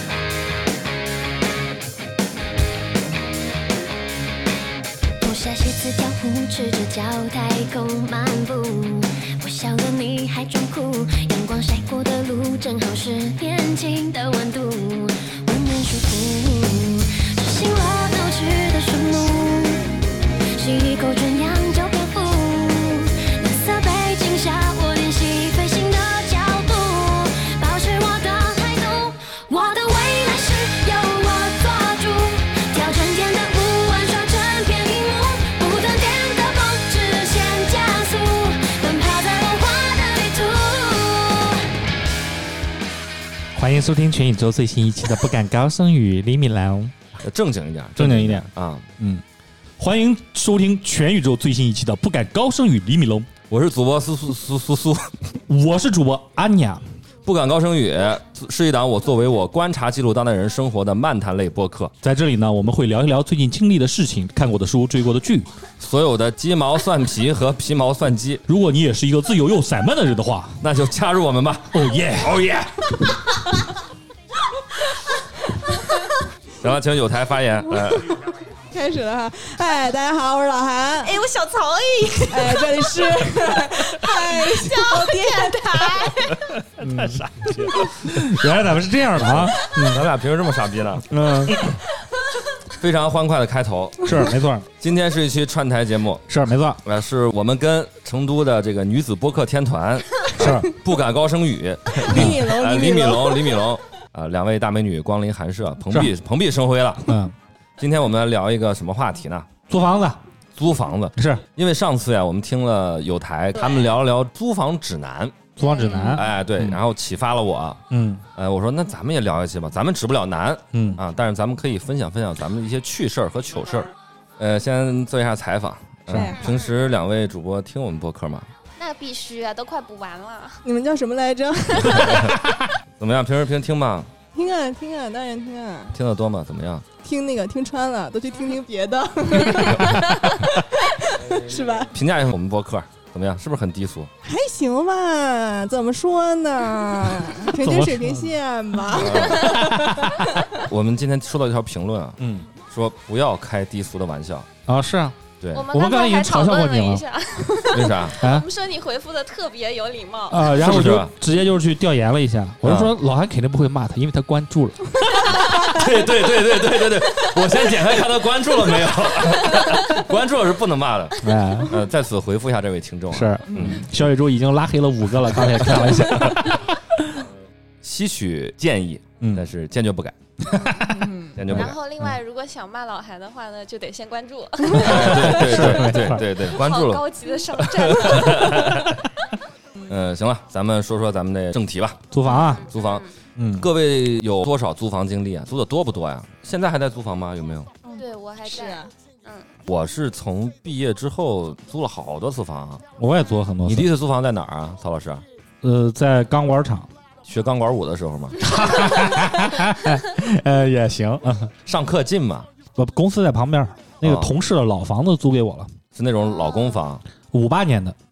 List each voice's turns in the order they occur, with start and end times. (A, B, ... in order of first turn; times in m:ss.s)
0:05.2-0:19.8 A
0:20.6-0:41.7 A
0:43.6-0:47.0 B
0:47.2-0:48.9 C
0:48.0-0:48.5 B
0:49.8-0:53.3 B
0:53.5-0:55.4 C
0:55.5-0:56.9 B
0:57.2-1:01.9 C
1:02.0-1:05.5 B
1:05.8-1:08.4 C
1:08.5-1:10.6 B
1:10.6-1:12.8 C
1:11.7-1:12.5 B
1:14.8-1:15.1 D
1:15.8-1:16.1 D
1:16.6-1:18.2 C
1:18.6-1:21.2 E
1:21.0-1:26.5 D
1:22.3-1:26.4 E
1:26.8-1:28.3 C
1:26.8-1:30.1 B
1:29.1-1:31.1 C
1:31.1-1:31.6 B
1:32.8-1:34.2 C
1:34.1-1:34.7 B
1:34.8-1:36.3 C
1:36.3-1:36.8 B
1:36.8-1:47.2 C
1:40.4-1:40.7 B
1:41.9-1:43.6 E
1:42.1-1:42.5 B
1:47.1-1:47.3 B
1:47.8-1:49.5 C
1:49.7-1:50.2 B
1:50.6-1:55.5 C
1:51.2-1:51.4 B
1:55.6-1:56.8 B
1:55.6-1:56.2 D
1:56.1-1:57.8 C
1:57.9-1:58.2 B
1:58.4-2:08.5 C
2:00.7-2:01.0 B
2:06.1-2:06.4 B
2:06.1-2:06.5 E
2:06.3-2:06.7 D
2:08.8-2:10.6 D
2:10.6-2:12.4 E
2:11.8-2:12.4 C
2:13.0-2:14.1 C
2:14.3-2:16.0 E
2:15.9-2:16.9 C
2:17.0-2:21.9 E
2:19.6-2:20.4 D
2:21.9-2:24.1 C
2:24.2-2:30.4 E
2:27.2-2:28.3 B
2:28.9-2:30.4 B
2:29.0-2:29.6 C
2:30.6-2:34.5 C
2:32.2-2:32.5 B
2:34.7-2:35.2 B
2:35.4-2:35.7 C
2:35.5-2:40.6 D
2:35.7-2:37.0 B
2:37.7-2:38.2 C
2:38.2-2:38.5 B
2:40.3-2:45.4 B
2:40.6-2:41.1 C
2:42.6-2:42.9 C
2:45.3-2:53.9 C
2:49.3-2:49.8 D
2:51.2-2:51.8 B
2:53.1-2:57.0 B
2:53.5-2:53.8 E
2:55.5-2:56.6 C
2:57.8-3:00.2 C
3:00.5-3:01.0 D
3:00.5-3:02.0 B
3:00.7-3:01.4 E
3:01.4-3:01.8 C
3:01.5-3:08.9 D
3:04.7-3:06.2 B
3:04.7-3:09.0 C
3:09.9-3:12.1 C
3:12.1-3:12.7 B
3:12.2-3:13.1 D
3:12.7-3:13.0 C
3:13.4-3:13.7 B
3:13.6-3:17.7 C
3:17.8-3:18.9 E
3:18.0-3:19.5 D
3:19.7-3:22.8 C
3:23.0-3:23.9 B
3:23.7-3:25.2 C
3:25.6-3:26.9 B
3:27.2-3:28.5 C
3:28.4-3:31.5 B
3:31.6-3:32.5 C
3:32.8-3:35.7 B
3:34.0-3:34.3 C
3:36.0-3:37.0 C
3:36.2-3:36.8 D
3:37.3-3:38.0 B